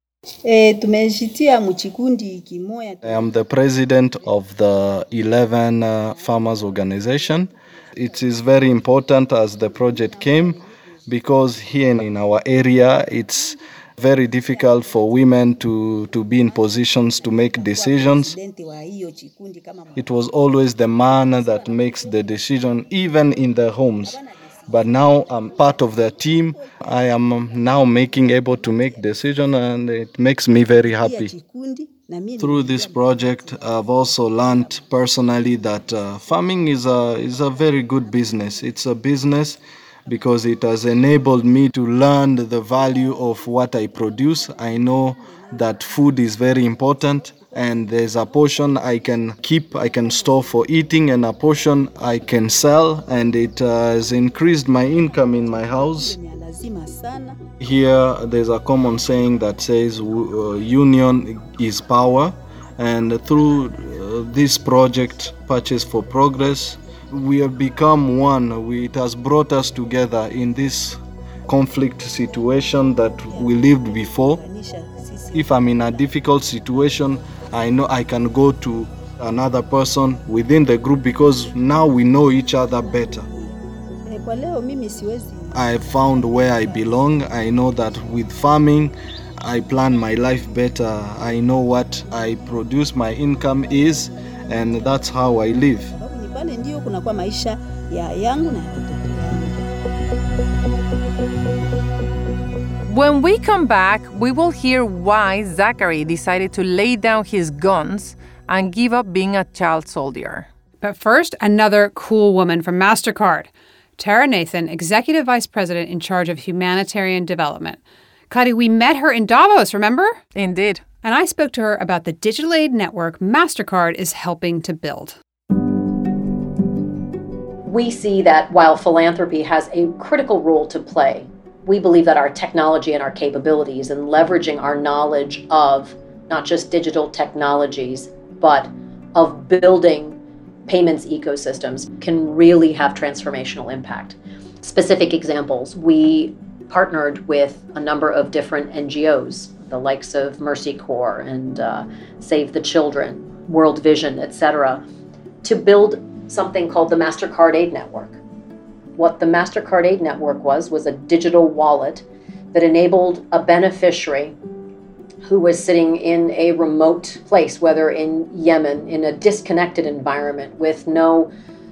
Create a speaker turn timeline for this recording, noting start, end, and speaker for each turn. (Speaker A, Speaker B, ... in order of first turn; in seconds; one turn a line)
Speaker A: 0.5-3.4
Speaker B: 3.0-18.3
Speaker A: 6.1-7.4
Speaker A: 8.0-10.6
Speaker A: 14.2-15.6
Speaker A: 16.4-20.1
Speaker B: 19.9-31.3
Speaker A: 20.8-22.5
Speaker A: 24.0-29.1
Speaker A: 30.9-34.8
Speaker B: 32.4-56.2
Speaker A: 35.5-39.0
Speaker A: 42.7-50.7
Speaker A: 54.1-57.4
Speaker B: 57.6-74.4
Speaker A: 73.3-76.1
Speaker B: 75.3-83.3
Speaker A: 82.0-87.2
Speaker B: 85.5-95.9
Speaker A: 93.6-99.6
Speaker C: 102.9-110.5
Speaker D: 110.8-120.2
Speaker C: 120.3-120.8
Speaker D: 121.0-125.2
Speaker E: 127.6-154.8
Speaker E: 155.4-158.2
Speaker E: 158.9-164.3
Speaker E: 165.2-171.3